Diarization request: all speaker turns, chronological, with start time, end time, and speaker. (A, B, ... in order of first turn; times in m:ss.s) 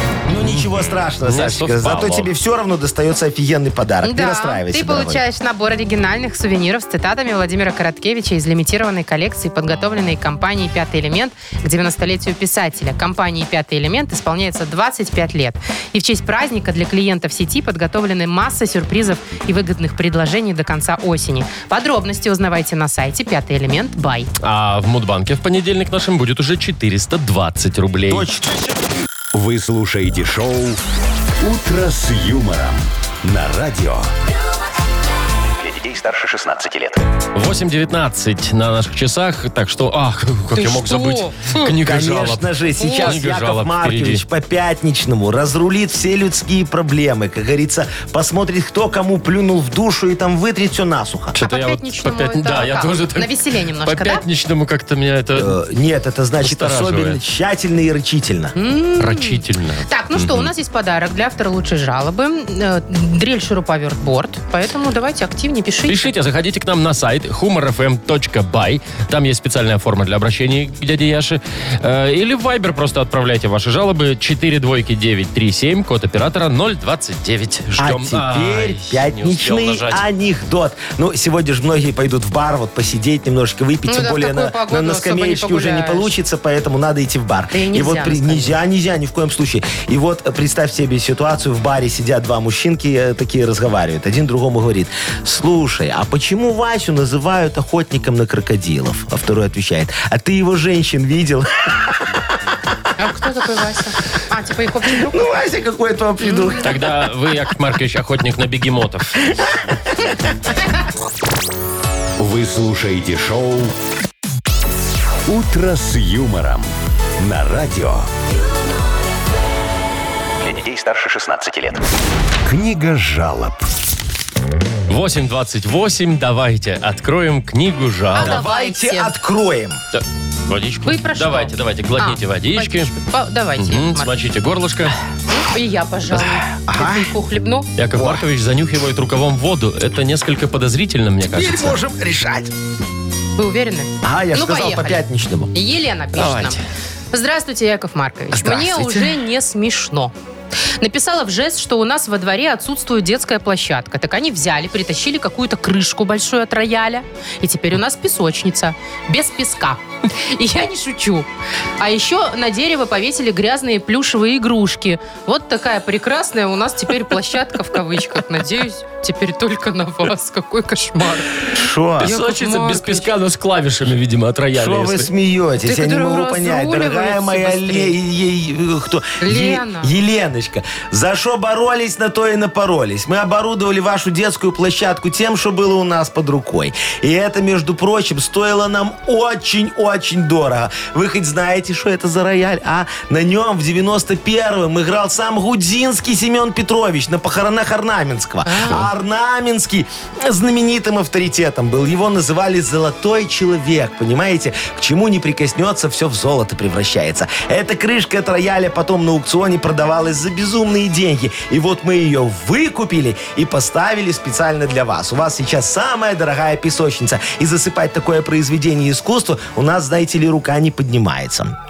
0:00.2-0:05.2 A
0:01.2-0:02.3 B
0:04.0-0:24.3 C
0:24.4-0:28.3 B
0:28.1-0:28.6 A
0:29.3-0:30.8 D
0:31.4-0:34.1 D
0:35.6-0:37.0 E
0:37.4-0:42.5 B
0:40.5-0:41.7 C
0:41.8-0:51.4 A
0:42.8-0:43.2 C
0:43.0-0:44.2 B
0:51.4-0:55.6 B
0:51.4-0:54.2 C
0:55.4-0:58.6 A
0:56.4-0:57.2 B
0:58.6-1:06.1 C
0:59.0-1:00.5 B
1:05.9-1:20.0 B
1:17.8-1:42.2 A
1:23.9-1:26.1 C
1:27.5-1:28.6 C
1:43.0-1:45.1 C
1:44.9-1:46.9 A
1:46.2-1:46.6 C
1:46.6-1:49.2 B
1:52.2-1:53.7 D
1:55.3-1:58.1 D
2:00.4-2:01.8 E
2:02.5-2:03.7 D
2:04.9-2:08.4 B
2:08.2-2:09.1 C
2:08.2-2:09.8 A
2:09.9-2:12.9 B
2:10.8-2:14.1 C
2:13.6-2:15.0 B
2:15.3-2:17.7 C
2:16.7-2:17.1 A
2:17.8-2:21.8 B
2:17.9-2:18.2 A
2:21.2-2:22.5 A
2:23.4-2:25.0 C
2:24.0-2:25.5 A
2:25.5-2:26.6 C
2:26.1-2:26.6 B
2:27.1-2:30.1 C
2:28.3-2:29.1 A
2:30.8-2:41.3 C
2:41.8-2:51.4 C
2:51.5-2:52.1 A
2:52.0-2:53.1 C
2:52.0-2:55.1 B
2:54.5-3:41.5 A
2:55.6-2:58.0 C
2:59.2-2:59.9 C
3:18.4-3:18.9 C